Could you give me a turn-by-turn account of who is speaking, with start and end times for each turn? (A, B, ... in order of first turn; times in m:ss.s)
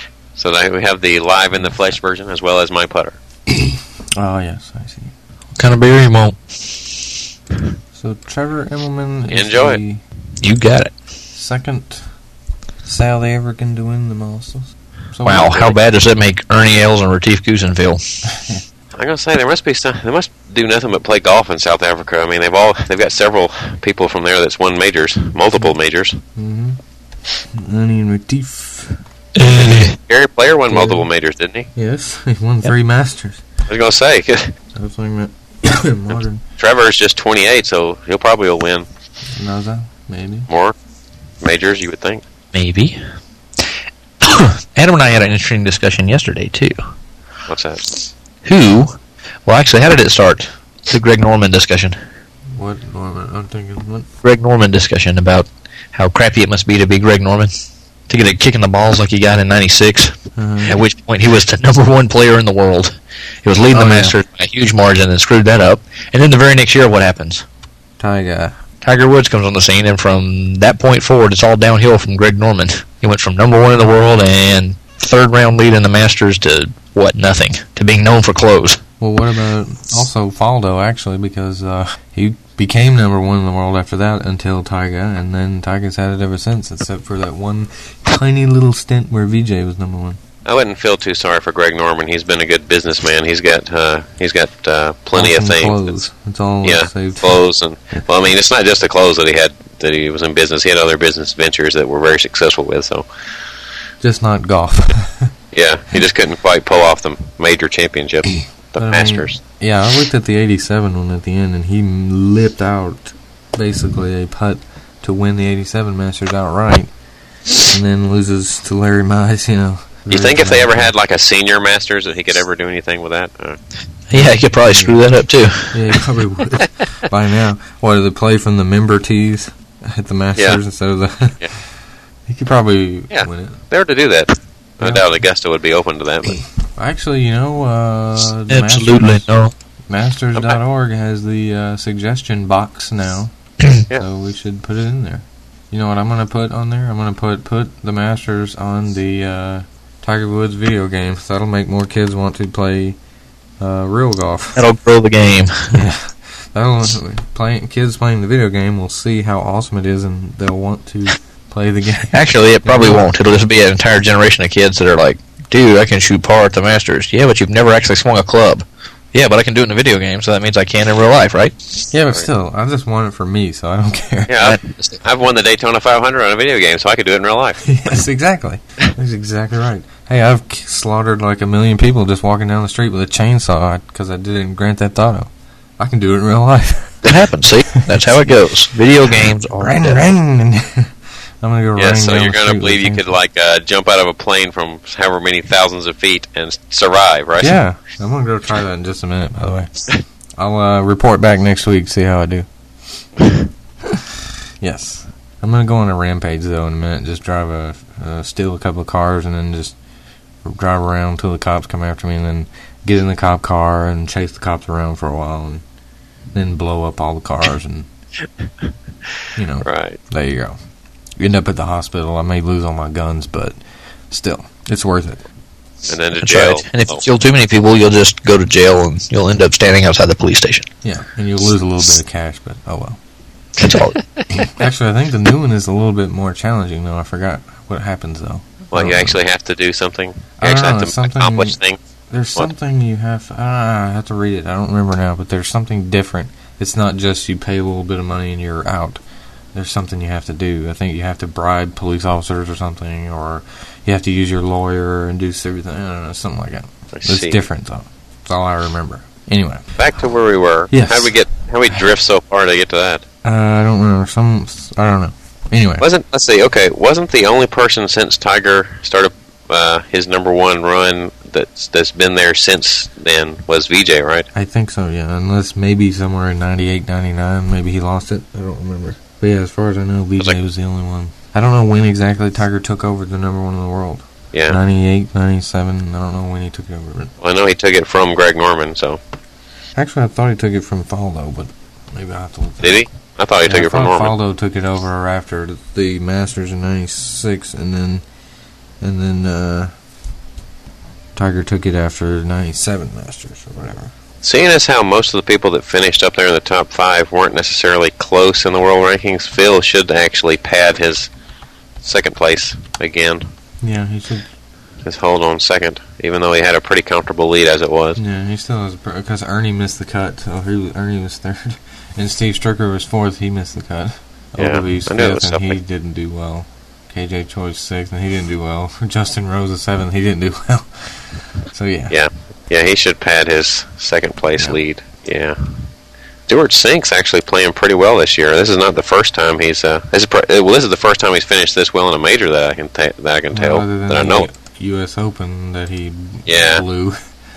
0:00.4-0:03.2 A
0:01.6-0:01.9 B
0:03.5-0:05.1 B
0:05.5-0:06.4 C
0:07.9-0:10.0 B
0:09.3-0:09.8 A
0:10.4-0:10.9 C
0:11.3-0:12.1 B
0:12.8-0:15.6 B
0:15.2-0:18.0 C
0:15.4-0:15.8 A
0:18.3-0:18.6 B
0:19.0-0:26.2 A
0:26.4-0:26.8 B
0:27.5-0:29.0 B
0:29.4-0:29.9 C
0:29.4-0:31.7 A
0:30.7-0:31.1 B
0:31.7-0:33.4 B
0:33.7-0:34.5 A
0:34.7-0:36.4 B
0:36.6-0:38.9 A
0:39.4-0:40.5 B
0:40.5-0:40.7 A
0:41.4-0:42.2 A
0:42.5-0:43.0 C
0:44.2-0:46.8 C
0:47.5-0:47.8 A
0:48.4-0:52.0 C
0:52.5-0:54.1 B
0:54.2-0:57.5 C
0:58.1-1:07.4 C
1:00.4-1:00.8 B
1:03.7-1:04.2 B
1:08.0-1:08.6 B
1:08.8-1:18.8 C
1:19.0-1:30.2 B
1:30.4-1:35.9 A
1:35.1-1:37.4 B
1:36.6-1:43.1 A
1:44.0-1:45.3 B
1:45.5-1:49.4 A
1:48.8-1:56.9 B
1:57.6-2:00.9 B
2:00.1-2:03.6 A
2:04.1-2:06.0 C
2:04.1-2:05.0 B
2:05.7-2:11.5 B
2:10.4-2:10.6 A
2:12.3-2:13.6 B
2:13.1-2:16.4 A
2:14.8-2:15.2 B
2:16.6-2:19.3 B
2:18.5-2:19.5 C
2:19.9-2:23.3 B
2:23.9-2:33.0 B
2:33.6-2:34.6 B
2:34.5-2:35.8 C
2:35.7-2:43.1 B
2:42.1-2:51.6 C
2:51.9-2:54.4 B
2:54.3-2:57.7 A
2:54.4-2:55.0 C
2:57.6-3:07.0 B
3:07.0-3:10.1 C
3:07.9-3:08.2 B
3:09.2-3:13.1 B
3:11.8-3:17.6 A
3:17.4-3:19.8 B
3:20.4-3:22.5 B
3:23.8-3:29.8 B
3:30.4-3:35.6 B
3:36.3-3:37.9 B
3:39.4-3:40.6 B
3:39.6-3:40.0 A
3:41.2-3:43.6 B
3:44.1-3:45.2 B
3:45.9-3:47.0 A
3:46.2-3:50.7 C
3:50.8-3:53.0 B
3:53.6-3:54.0 C
3:54.3-3:59.2 B
3:58.7-4:01.8 A
4:00.4-4:01.6 B
4:02.1-4:09.0 B
4:09.5-4:19.6 B
4:16.9-4:17.4 A
4:19.8-4:23.0 A
4:20.7-4:21.2 B
4:23.2-4:25.8 B
4:25.8-4:34.3 A
4:34.3-4:47.1 B
4:44.3-4:44.6 A
4:47.2-4:49.0 A
4:49.8-4:52.8 B
4:52.6-4:54.1 A
4:53.5-4:58.0 B
4:58.8-4:59.7 B
5:01.2-5:03.9 B
5:04.2-5:11.1 A
5:11.8-5:13.2 A
5:13.6-5:14.3 B
5:14.8-5:18.0 A
5:18.0-5:32.0 B
5:24.4-5:25.6 A
5:31.9-5:35.4 A
5:36.3-5:44.3 A
5:43.3-5:47.0 B
5:46.2-5:46.6 A